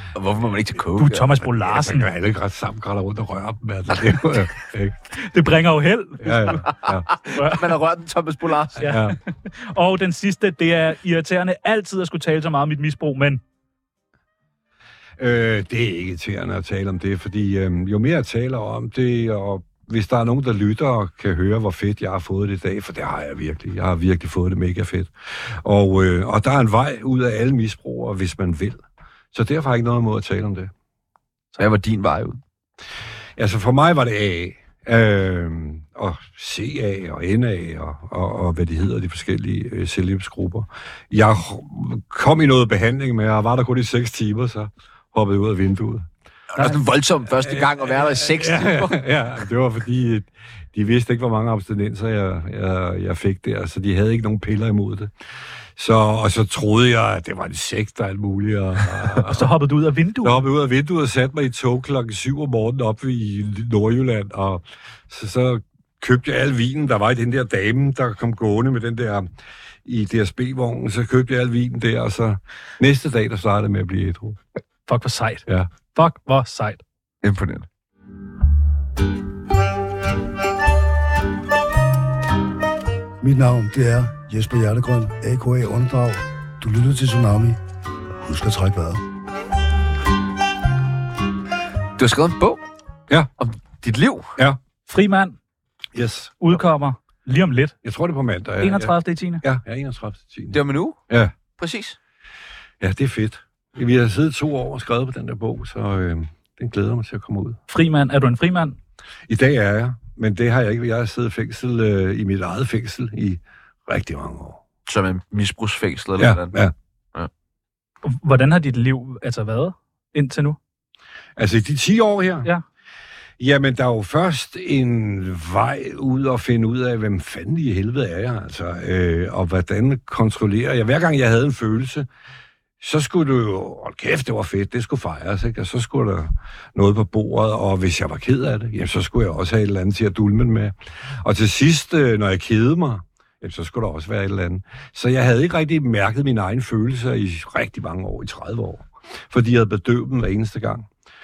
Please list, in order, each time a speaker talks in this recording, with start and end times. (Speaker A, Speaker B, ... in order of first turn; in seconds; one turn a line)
Speaker A: 0.1-1.3
Speaker B: 0.9-2.1
Speaker C: 1.5-5.0
Speaker B: 5.1-6.7
Speaker C: 6.2-7.1
Speaker A: 6.7-8.9
Speaker B: 7.3-7.7
Speaker B: 8.8-13.4
Speaker C: 8.8-9.2
Speaker C: 15.2-30.7
Speaker A: 31.6-32.4
Speaker C: 33.4-46.1
Speaker A: 46.5-49.0
Speaker C: 47.4-55.1
Speaker C: 55.8-59.5
Speaker B: 59.2-60.5
Speaker C: 60.2-69.3
Speaker C: 69.8-74.4
Speaker B: 74.9-76.8
Speaker A: 77.2-77.7
Speaker D: 83.2-87.6
Speaker D: 88.2-89.0
Speaker A: 92.0-92.6
Speaker A: 93.4-94.3
Speaker B: 94.9-95.4
Speaker C: 95.9-96.5
Speaker B: 96.4-97.7
Speaker C: 97.8-101.3
Speaker B: 98.6-99.4
Speaker A: 100.5-101.0
Speaker A: 101.6-102.0
Speaker C: 102.8-107.6
Speaker B: 107.7-108.8
Speaker C: 109.3-114.6
Speaker A: 114.8-116.5
Speaker C: 116.2-116.7
Speaker B: 118.0-120.6
Speaker C: 121.4-122.5
Speaker C: 123.4-132.1
Speaker C: 132.8-150.9